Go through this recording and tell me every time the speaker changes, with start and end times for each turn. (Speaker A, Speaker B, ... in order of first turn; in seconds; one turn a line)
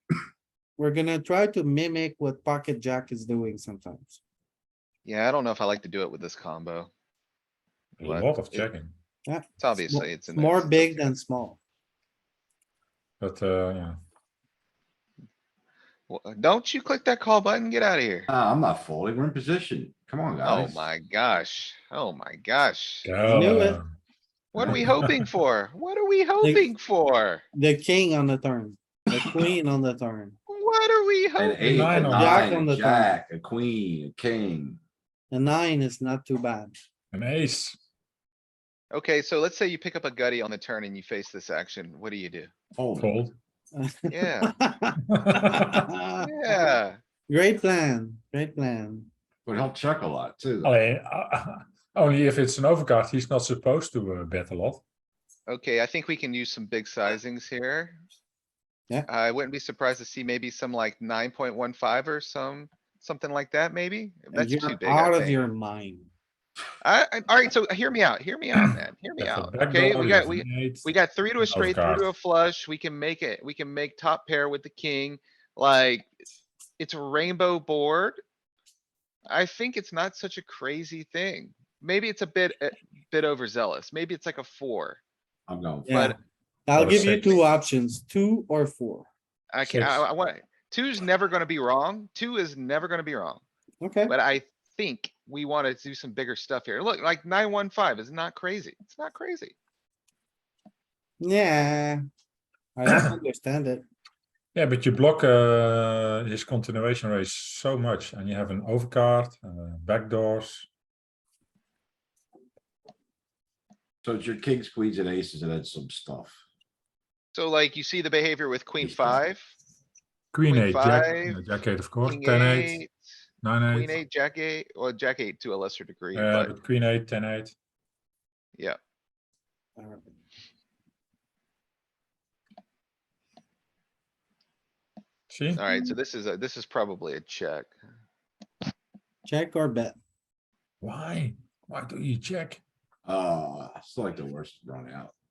Speaker A: 0.8-4.2
Speaker B: 5.0-6.9
Speaker C: 8.0-8.9
Speaker B: 8.0-8.7
Speaker A: 9.3-11.6
Speaker B: 9.6-11.1
Speaker C: 13.2-13.9
Speaker B: 16.1-18.3
Speaker D: 18.3-20.9
Speaker B: 20.4-23.1
Speaker C: 23.0-23.9
Speaker A: 23.2-23.8
Speaker B: 24.5-27.4
Speaker D: 24.6-24.8
Speaker C: 24.6-25.2
Speaker A: 27.5-30.4
Speaker B: 30.5-32.0
Speaker D: 31.4-34.8
Speaker C: 31.6-32.4
Speaker A: 32.1-33.1
Speaker A: 35.3-36.7
Speaker C: 37.1-37.8
Speaker B: 38.9-42.5
Speaker D: 42.7-43.2
Speaker C: 43.0-43.3
Speaker A: 43.8-46.7
Speaker B: 44.1-44.5
Speaker C: 45.1-45.9
Speaker B: 46.2-47.0
Speaker A: 47.3-49.1
Speaker D: 49.5-50.7
Speaker C: 50.6-54.8
Speaker B: 55.5-58.0
Speaker B: 59.1-65.4
Speaker A: 64.3-66.1
Speaker B: 66.8-76.1
Speaker C: 69.2-70.9
Speaker C: 71.4-72.1
Speaker B: 76.8-78.2
Speaker B: 79.3-85.0
Speaker D: 85.5-86.0
Speaker A: 85.9-86.1
Speaker B: 85.9-86.1
Speaker A: 86.7-89.1
Speaker C: 86.7-87.4
Speaker B: 89.5-93.4
Speaker C: 89.6-90.0
Speaker A: 93.8-94.1
Speaker B: 94.0-99.5
Speaker A: 101.2-102.0
Speaker A: 102.8-103.8
Speaker C: 104.5-110.7
Speaker D: 114.0-116.4
Speaker B: 117.3-119.5
Speaker D: 118.8-119.2
Speaker C: 120.3-122.8
Speaker B: 120.5-121.4
Speaker B: 122.0-123.1
Speaker C: 123.4-124.0
Speaker B: 123.7-126.5
Speaker C: 126.1-127.5
Speaker A: 129.8-130.1
Speaker C: 135.3-135.6
Speaker B: 135.5-137.7
Speaker A: 139.2-140.0
Speaker C: 140.8-142.6
Speaker D: 143.1-145.1